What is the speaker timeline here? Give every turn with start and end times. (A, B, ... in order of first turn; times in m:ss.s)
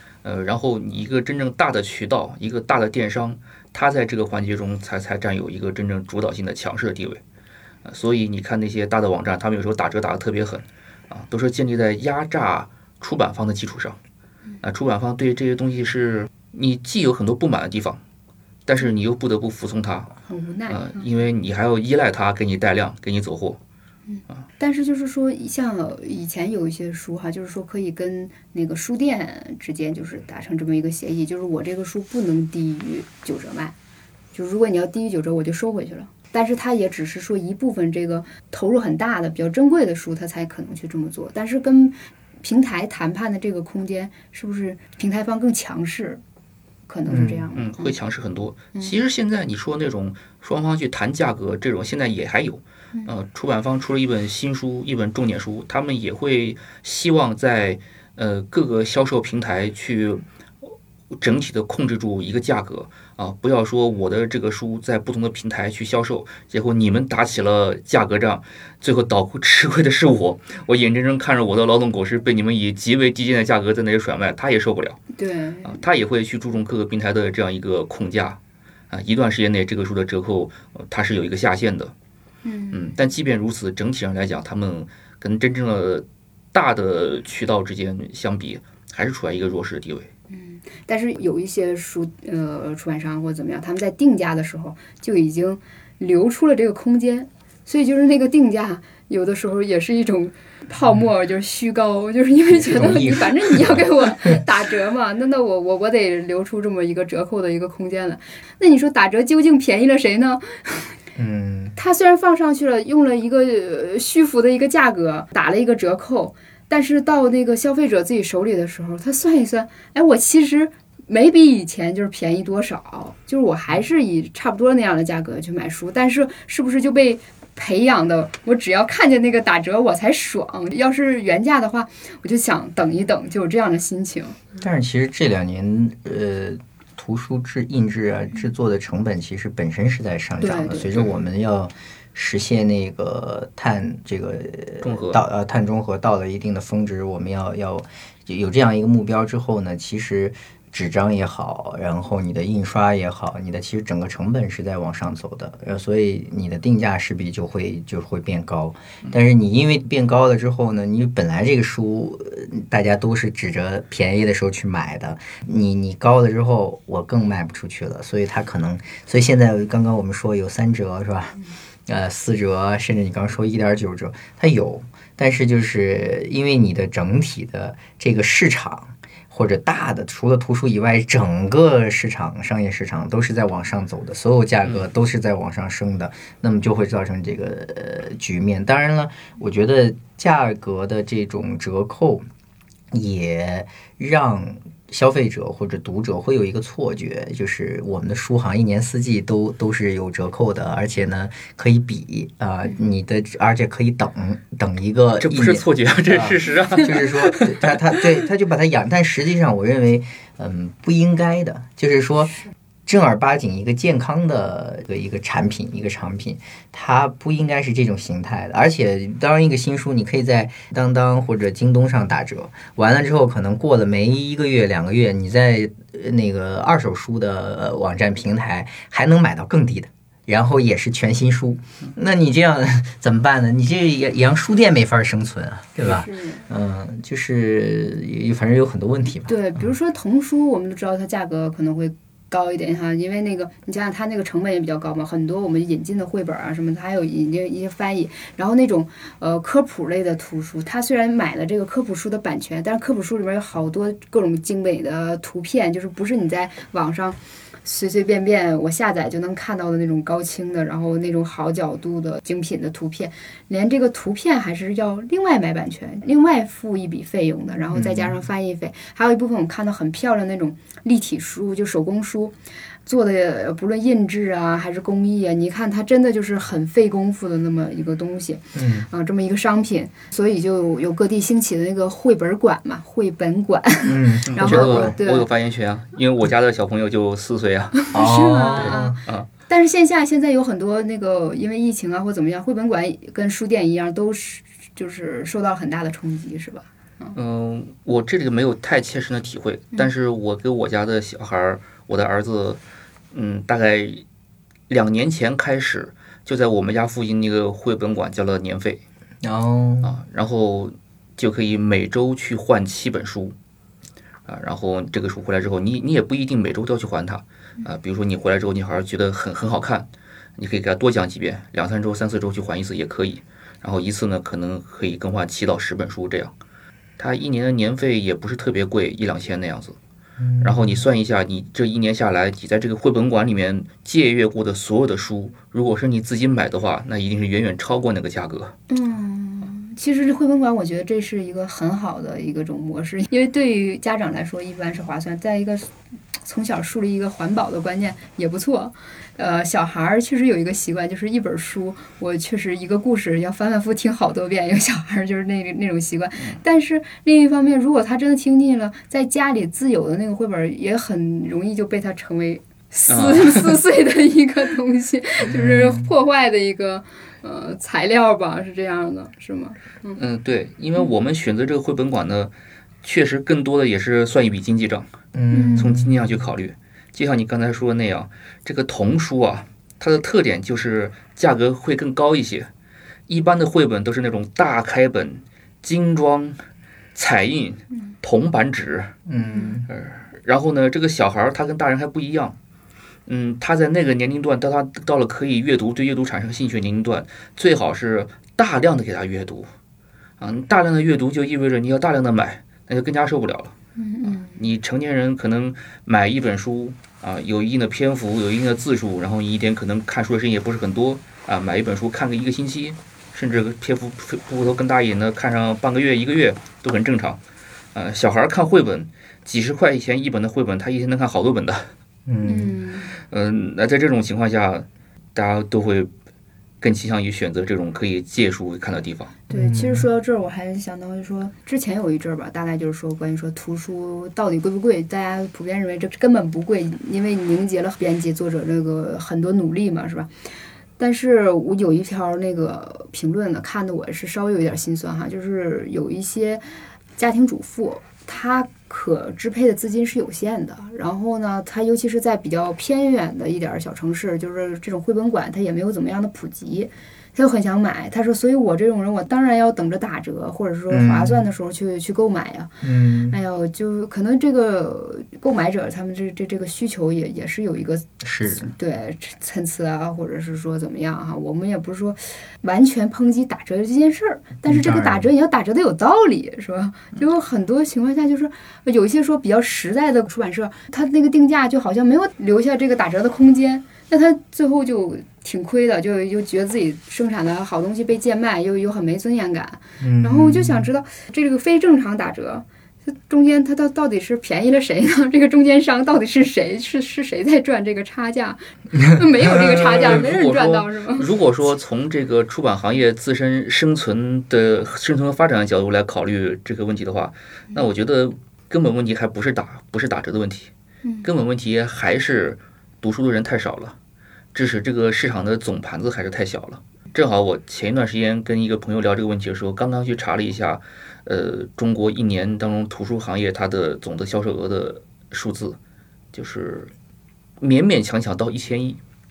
0:00.2-0:07.2 A
0:07.8-0:14.0 A
0:14.6-0:18.0 A
0:18.7-0:20.1 A
0:20.3-0:21.0 B
0:20.7-0:23.6 A
0:24.1-0:33.7 B
0:34.3-0:46.2 B
0:46.9-0:47.9 B
0:47.1-0:47.4 C
0:47.6-1:15.0 A
1:15.2-1:15.8 B
1:15.6-1:18.4 A
1:18.9-1:21.9 A
1:22.4-1:22.9 B
1:22.7-1:30.1 A
1:30.3-1:51.0 B
1:42.5-1:43.9 C
1:51.2-1:51.8 C
1:51.8-2:14.4 B
2:14.6-3:12.2 C
2:20.4-2:20.9 B
2:24.8-2:25.2 A
3:12.9-3:59.4 C
3:25.2-3:27.8 A
3:55.8-3:56.5 B
3:59.3-4:32.3 B
4:27.7-4:28.2 C
4:32.8-4:45.3 B
4:38.5-4:38.9 C
4:43.8-4:45.0 C
4:44.3-4:47.8 A
4:47.8-4:57.2 B
4:47.9-4:49.0 C
4:48.6-4:49.3 A
4:57.1-5:02.6 A
5:03.1-5:04.0 A
5:04.7-5:08.8 A
5:09.2-5:09.9 C
5:09.8-5:13.3 A
5:14.3-5:26.3 A
5:27.0-5:29.8 A
5:30.2-5:30.8 C
5:30.4-5:38.5 A
5:38.7-5:45.7 B
5:46.2-6:10.0 B
6:02.9-6:03.6 A
6:05.2-6:05.9 C
6:10.0-6:14.9 A
6:15.1-6:15.9 C
6:15.3-6:15.7 B
6:15.6-6:22.5 A
6:23.1-6:26.4 A
6:26.9-6:29.0 A
6:29.0-6:29.7 C
6:29.7-6:32.4 A
6:33.1-6:39.5 A
6:40.2-6:43.5 A
6:43.8-6:44.4 B
6:44.1-6:57.2 A
6:57.7-7:01.7 A
7:02.1-7:02.6 C
7:02.2-7:02.9 B
7:03.0-7:05.9 A
7:06.6-7:09.1 A
7:09.3-7:20.1 B
7:09.3-7:09.8 C
7:20.8-7:26.4 B
7:27.0-8:21.1 B
7:40.7-7:41.2 C
7:42.6-7:43.2 C
7:48.0-7:48.5 C
7:54.4-7:55.1 C
8:09.8-8:10.6 C
8:19.3-8:30.5 A
8:31.0-8:33.8 A
8:34.3-8:45.6 A
8:46.1-8:46.7 A
8:47.4-8:48.8 A